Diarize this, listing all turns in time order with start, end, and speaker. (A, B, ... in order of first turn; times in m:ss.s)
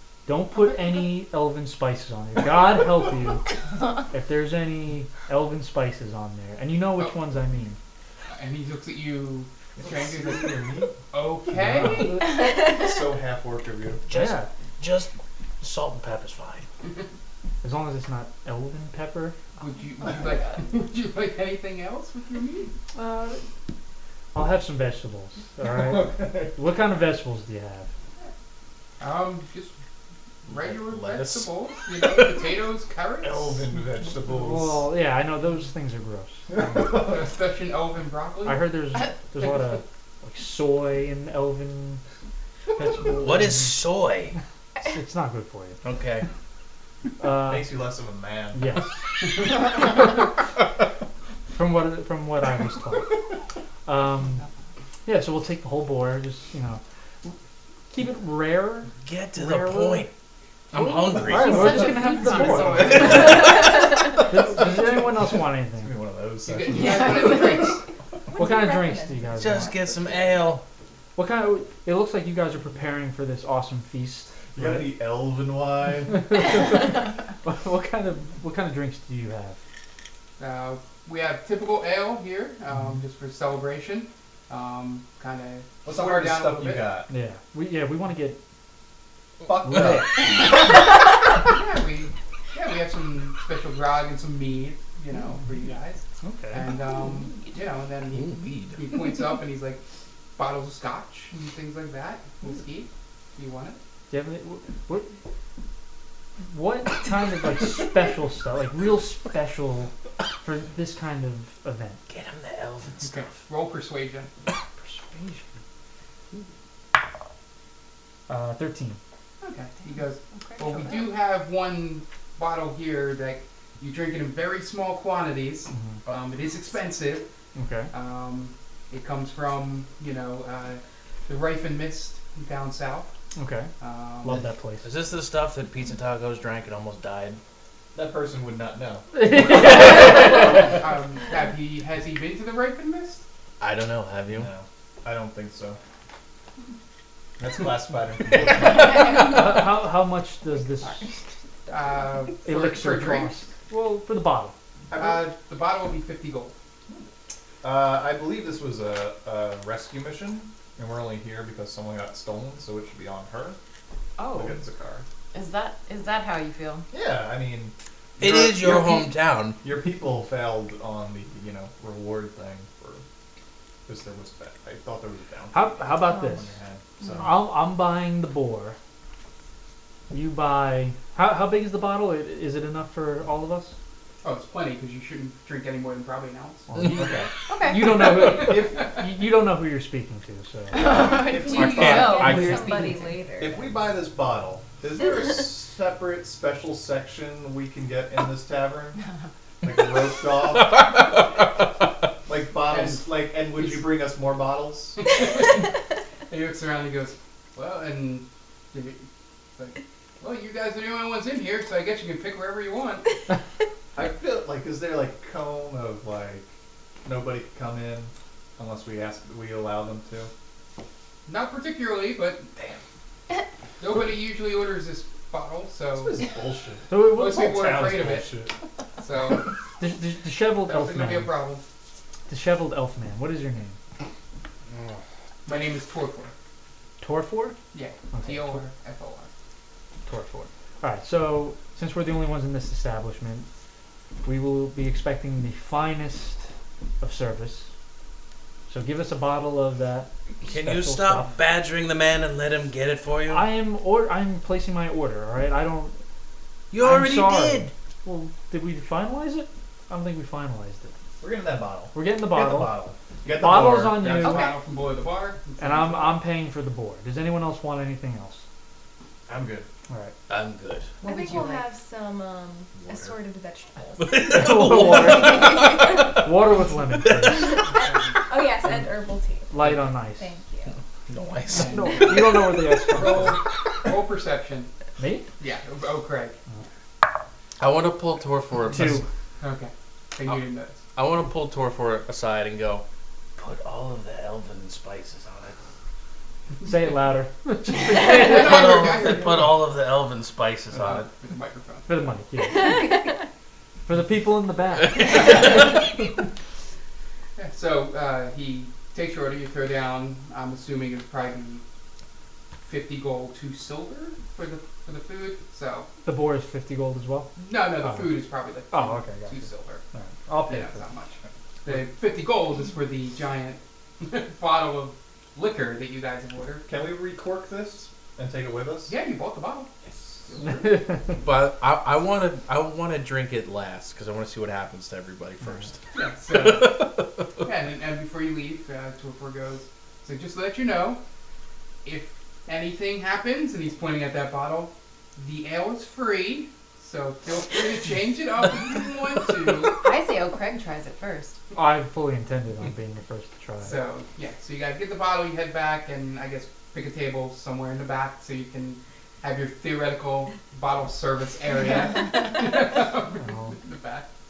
0:00.2-0:07.8 A
0:08.3-0:12.2 B
0:09.8-0:11.0 C
0:11.5-0:12.3 A
0:11.7-0:14.0 C
0:12.4-0:12.7 D
0:14.1-0:16.6 E
0:14.1-0:14.5 A
0:17.6-0:19.4 A
0:19.6-0:22.7 B
0:22.9-0:23.4 A
0:24.3-0:27.9 A
0:25.6-0:26.6 C
0:29.0-0:29.7 B
0:30.5-0:33.6 B
0:30.5-0:32.4 E
0:33.2-0:34.8 C
0:34.2-0:36.9 A
0:36.5-0:37.1 C
0:36.8-0:38.7 B
0:38.4-0:42.0 A
0:42.8-0:43.8 A
0:43.2-0:44.3 E
0:44.8-0:45.8 A
0:45.8-0:46.2 E
0:47.2-0:47.7 A
0:47.4-0:48.7 C
0:48.5-0:49.0 A
0:51.5-0:53.2 A
0:53.8-0:54.4 A
0:55.0-0:57.4 A
0:57.9-1:00.1 A
0:59.0-1:00.1 E
1:00.7-1:01.9 E
1:01.1-1:05.9 A
1:01.3-1:03.4 F
1:01.4-1:02.2 D
1:02.6-1:07.2 C
1:02.9-1:04.1 D
1:06.4-1:07.8 B
1:06.8-1:07.6 F
1:08.3-1:09.7 D
1:08.4-1:09.8 A
1:09.4-1:10.6 E
1:11.2-1:14.9 A
1:14.5-1:16.4 C
1:16.1-1:19.6 A
1:20.4-1:26.9 B
1:25.8-1:27.1 C
1:27.1-1:28.4 A
1:29.4-1:30.5 C
1:29.6-1:30.1 A
1:31.4-1:39.8 B
1:36.2-1:36.6 A
1:38.1-1:38.8 E
1:40.4-1:43.8 B
1:44.1-1:45.1 A
1:46.4-1:52.0 A
1:52.1-1:53.3 E
1:53.0-1:54.3 B
1:54.8-1:55.5 A
1:58.3-1:59.0 A
1:59.4-2:07.3 B
2:00.3-2:01.1 F
2:05.7-2:06.0 A
2:07.5-2:07.9 A
2:07.9-2:13.1 B
2:13.4-2:13.7 A
2:13.8-2:14.4 B
2:14.2-2:14.8 A
2:14.8-2:17.4 E
2:17.9-2:19.8 C
2:19.1-2:20.7 A
2:19.7-2:23.2 B
2:23.6-2:24.5 E
2:24.3-2:25.8 C
2:27.4-2:29.3 C
2:29.0-2:31.1 A
2:31.7-2:33.4 B
2:32.4-2:34.5 A
2:34.9-2:35.3 C
2:34.9-2:36.5 B
2:37.6-2:43.6 C
2:44.2-2:44.6 F
2:44.3-2:45.0 C
2:45.3-2:46.9 F
2:46.9-2:53.0 C
2:48.2-2:49.6 E
2:53.8-2:57.3 C
2:55.5-2:56.5 A
2:57.2-2:58.8 A
3:00.1-3:03.7 A
3:04.2-3:06.7 B
3:06.7-3:11.0 A
3:06.8-3:07.3 C
3:07.5-3:08.0 F
3:08.0-3:08.8 B
3:08.3-3:08.8 C
3:10.7-3:13.2 F
3:10.8-3:12.3 C
3:10.9-3:13.7 D
3:11.5-3:12.5 E
3:12.2-3:12.6 A
3:13.4-3:19.0 C
3:19.6-3:21.0 C
3:22.2-3:25.0 C
3:22.7-3:23.9 B
3:25.0-3:25.7 B
3:26.3-3:29.0 B
3:29.6-3:33.0 B
3:33.9-3:36.5 C
3:37.0-3:40.3 C
3:41.3-3:42.5 B
3:43.8-3:46.2 B
3:45.9-3:48.6 C
3:46.9-3:47.9 A
3:47.1-3:48.3 B
3:49.0-3:49.5 B
3:49.8-3:51.3 A
3:50.6-3:51.6 B
3:52.3-3:53.8 A
3:55.4-3:56.3 B
3:57.0-3:57.6 A
3:57.7-3:59.3 B
3:58.1-3:58.6 A
4:00.0-4:03.5 A
4:04.2-4:06.5 A
4:07.0-4:07.7 A
4:08.7-4:11.4 A
4:10.4-4:13.4 E
4:13.3-4:16.0 A
4:16.7-4:17.7 E
4:16.8-4:20.9 A
4:21.2-4:24.4 C
4:21.9-4:22.8 A
4:23.3-4:24.5 A
4:24.0-4:26.2 B
4:25.6-4:28.4 A
4:29.3-4:29.7 C
4:29.9-4:30.1 A
4:30.3-4:30.9 E
4:31.0-4:31.7 F
4:31.0-4:34.6 D
4:32.8-4:33.1 E
4:34.0-4:36.2 E
4:34.3-4:37.6 A
4:35.1-4:36.1 D
4:37.0-4:37.6 E
4:37.3-4:40.8 D
4:37.7-4:38.2 B
4:39.5-4:40.3 A
4:41.1-4:42.3 E
4:41.5-4:43.4 A
4:41.5-4:42.4 B
4:42.9-4:44.7 B
4:45.0-4:45.3 A
4:45.4-4:46.4 B
4:47.6-4:49.0 E
4:48.7-4:49.0 A
4:49.4-4:50.8 B
4:50.9-4:52.8 E
4:53.4-4:55.6 E
4:56.6-4:59.1 A
4:57.9-4:59.5 B
4:58.1-5:01.1 E
5:00.8-5:01.9 B
5:01.9-5:02.9 A
5:02.6-5:03.1 D
5:03.8-5:05.6 A
5:07.4-5:11.6 B
5:12.6-5:15.9 B
5:16.0-5:18.1 A
5:17.4-5:19.8 B
5:18.7-5:20.8 A
5:20.5-5:26.6 B
5:26.7-5:28.9 C
5:28.9-5:29.7 B
5:30.4-5:31.1 A
5:31.1-5:37.2 E
5:35.9-5:36.9 B
5:37.4-5:41.0 B
5:41.8-5:49.8 B
5:49.8-5:51.4 F
5:51.5-5:53.8 A
5:53.6-6:04.1 B
6:03.2-6:03.6 A